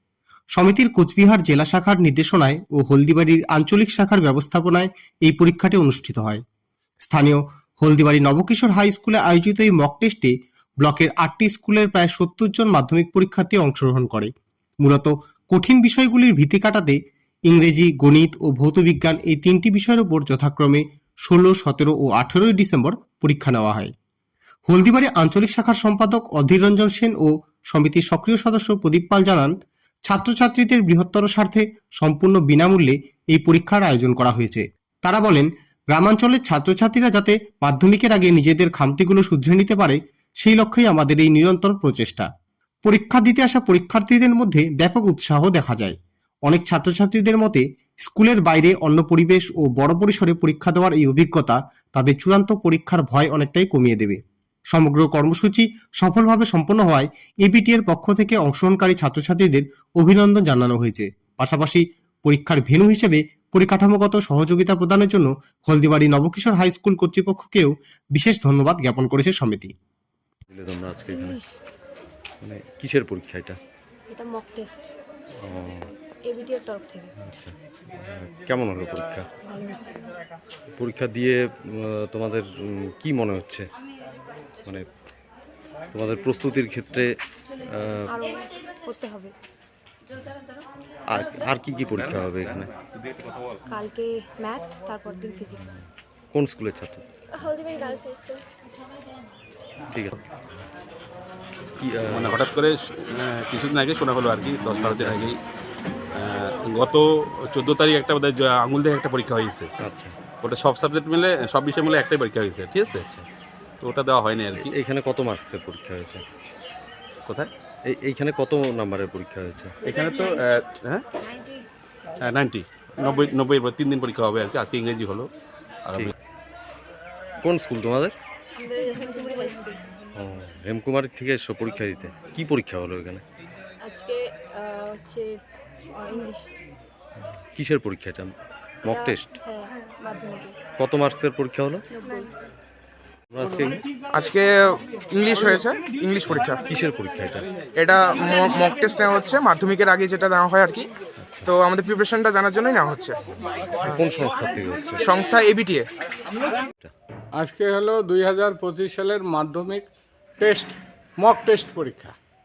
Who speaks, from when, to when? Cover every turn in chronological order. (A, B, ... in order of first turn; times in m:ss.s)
0:00.6-0:06.4 A
0:07.0-0:17.0 A
0:17.5-0:23.9 A
0:24.7-0:29.5 A
0:30.1-0:42.3 A
0:42.8-1:09.7 A
1:10.5-1:11.4 B
1:11.1-1:11.6 C
1:12.4-1:13.6 B
1:14.1-1:14.9 C
1:15.4-1:15.9 B
1:16.2-1:17.1 C
1:17.2-1:19.3 B
1:19.4-1:20.0 C
1:20.8-1:23.7 B
1:25.9-1:27.1 B
1:27.7-1:28.1 B
1:28.1-1:29.4 C
1:31.1-1:32.7 B
1:33.7-1:35.7 C
1:35.7-1:37.0 B
1:37.4-1:38.4 C
1:39.9-1:40.2 B
1:41.8-1:42.4 B
1:42.1-1:45.4 D
1:46.1-1:49.7 D
1:49.8-1:50.2 B
1:50.4-1:53.0 D
1:53.0-1:53.3 B
1:53.8-1:54.7 D
1:54.5-1:56.2 B
1:57.8-1:59.7 B
1:59.8-2:01.0 D
2:01.2-2:01.6 C
2:02.2-2:05.3 D
2:05.9-2:06.1 D
2:07.4-2:08.1 B
2:08.5-2:09.8 C
2:10.2-2:13.2 B
2:13.8-2:15.4 C
2:15.9-2:16.5 C
2:17.4-2:18.3 B
2:18.8-2:19.3 B
2:18.8-2:20.6 C
2:20.8-2:21.8 B
2:22.0-2:22.3 C
2:23.3-2:23.8 B
2:24.2-2:24.5 E
2:25.2-2:26.4 E
2:26.3-2:27.5 B
2:27.8-2:30.8 E
2:31.2-2:31.5 B
2:31.6-2:33.1 E
2:33.8-2:35.1 B
2:35.2-2:35.8 E
2:37.4-2:39.8 F
2:40.4-2:42.1 F